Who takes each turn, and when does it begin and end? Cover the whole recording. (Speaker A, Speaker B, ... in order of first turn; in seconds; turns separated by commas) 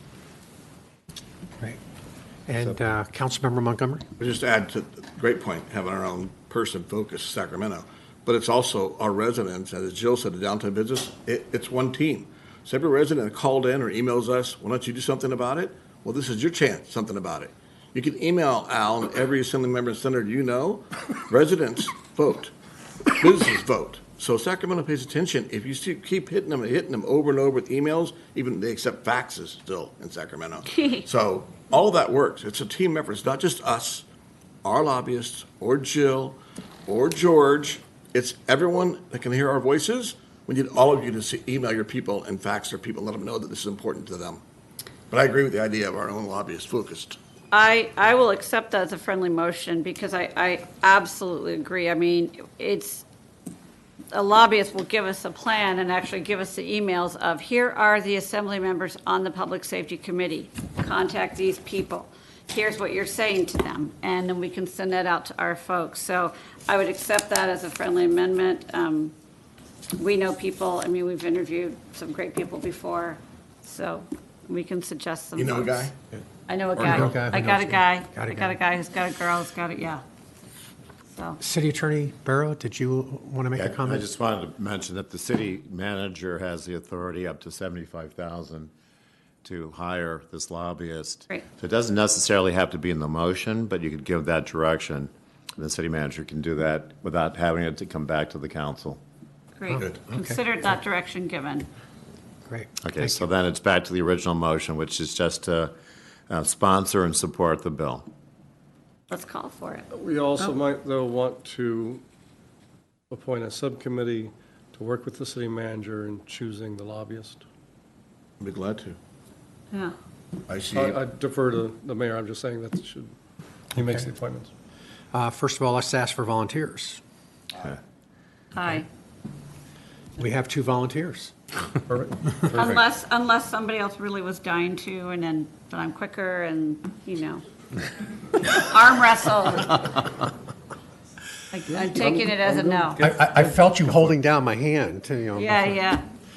Speaker A: 2.5-4.0, Speaker B: 4.2-22.5, Speaker B: 23.1-34.0, Speaker B: 34.6-44.4, Speaker B: 45.1-47.2, Speaker C: 47.5-53.0, Speaker C: 54.1-69.1, Speaker C: 70.0-75.9, Speaker B: 75.3-76.0, Speaker C: 76.5-80.0, Speaker A: 76.8-78.6, Speaker B: 76.8-77.1, Speaker C: 81.1-81.4, Speaker A: 81.4-84.1, Speaker D: 83.5-88.7, Speaker D: 89.4-99.0, Speaker C: 99.6-101.7, Speaker A: 99.7-100.4, Speaker A: 102.5-103.2, Speaker D: 102.8-105.7, Speaker D: 106.3-108.1, Speaker C: 109.1-109.8, Speaker E: 109.9-112.0, Speaker E: 113.1-117.4, Speaker B: 118.4-119.0, Speaker B: 120.5-121.0, Speaker E: 120.7-123.1, Speaker E: 123.7-124.5, Speaker A: 123.8-124.1, Speaker A: 125.1-127.0, Speaker C: 128.5-128.8, Speaker A: 130.2-131.3, Speaker E: 131.9-132.7, Speaker C: 132.5-137.4, Speaker C: 138.4-140.1, Speaker C: 141.5-143.1, Speaker E: 141.7-143.5, Speaker A: 143.0-145.8, Speaker C: 145.3-146.0